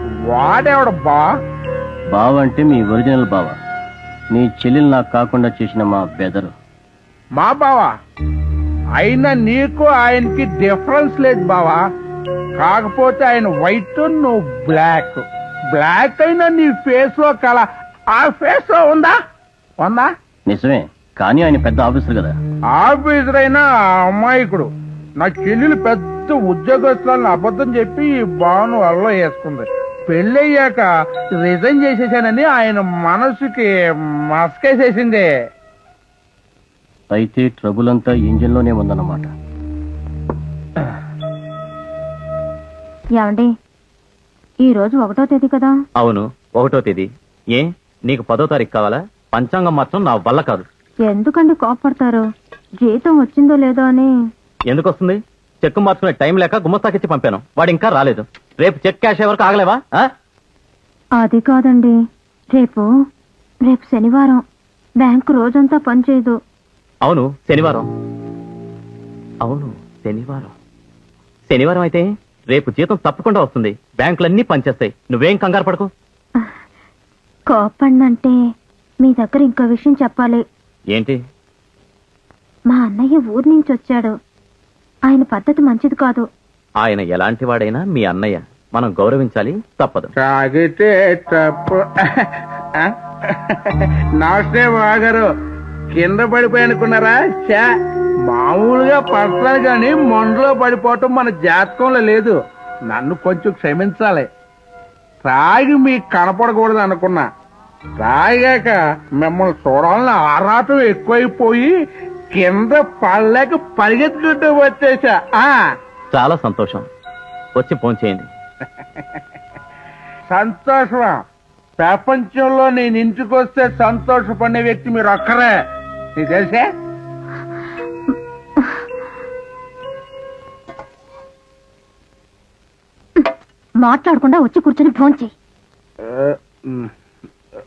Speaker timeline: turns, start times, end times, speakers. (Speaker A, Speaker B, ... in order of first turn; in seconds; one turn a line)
Speaker A: 0.3-1.3
Speaker B: 2.1-3.6
Speaker B: 4.3-6.5
Speaker A: 7.4-7.9
Speaker A: 9.0-11.8
Speaker A: 12.6-19.1
Speaker A: 19.8-20.1
Speaker B: 20.5-22.4
Speaker A: 22.7-33.7
Speaker A: 34.3-35.3
Speaker B: 37.1-39.3
Speaker C: 43.2-43.5
Speaker C: 44.6-45.7
Speaker D: 46.0-50.6
Speaker C: 51.0-52.2
Speaker C: 52.8-54.1
Speaker D: 54.7-60.1
Speaker C: 61.2-62.0
Speaker C: 62.5-62.9
Speaker C: 63.6-64.4
Speaker C: 65.0-66.4
Speaker D: 67.0-67.9
Speaker D: 69.4-70.5
Speaker D: 71.5-75.9
Speaker C: 77.5-78.3
Speaker C: 79.0-80.4
Speaker D: 80.9-81.2
Speaker C: 82.7-84.1
Speaker C: 85.1-86.3
Speaker D: 86.8-90.1
Speaker A: 90.2-92.3
Speaker A: 92.8-95.2
Speaker A: 96.0-97.6
Speaker A: 98.3-102.3
Speaker A: 102.9-104.3
Speaker A: 105.2-107.2
Speaker A: 108.0-111.7
Speaker A: 112.3-115.5
Speaker D: 116.1-116.8
Speaker D: 117.5-118.3
Speaker A: 120.3-121.2
Speaker A: 121.8-125.5
Speaker A: 126.2-126.7
Speaker C: 133.8-135.3
Speaker A: 136.1-136.9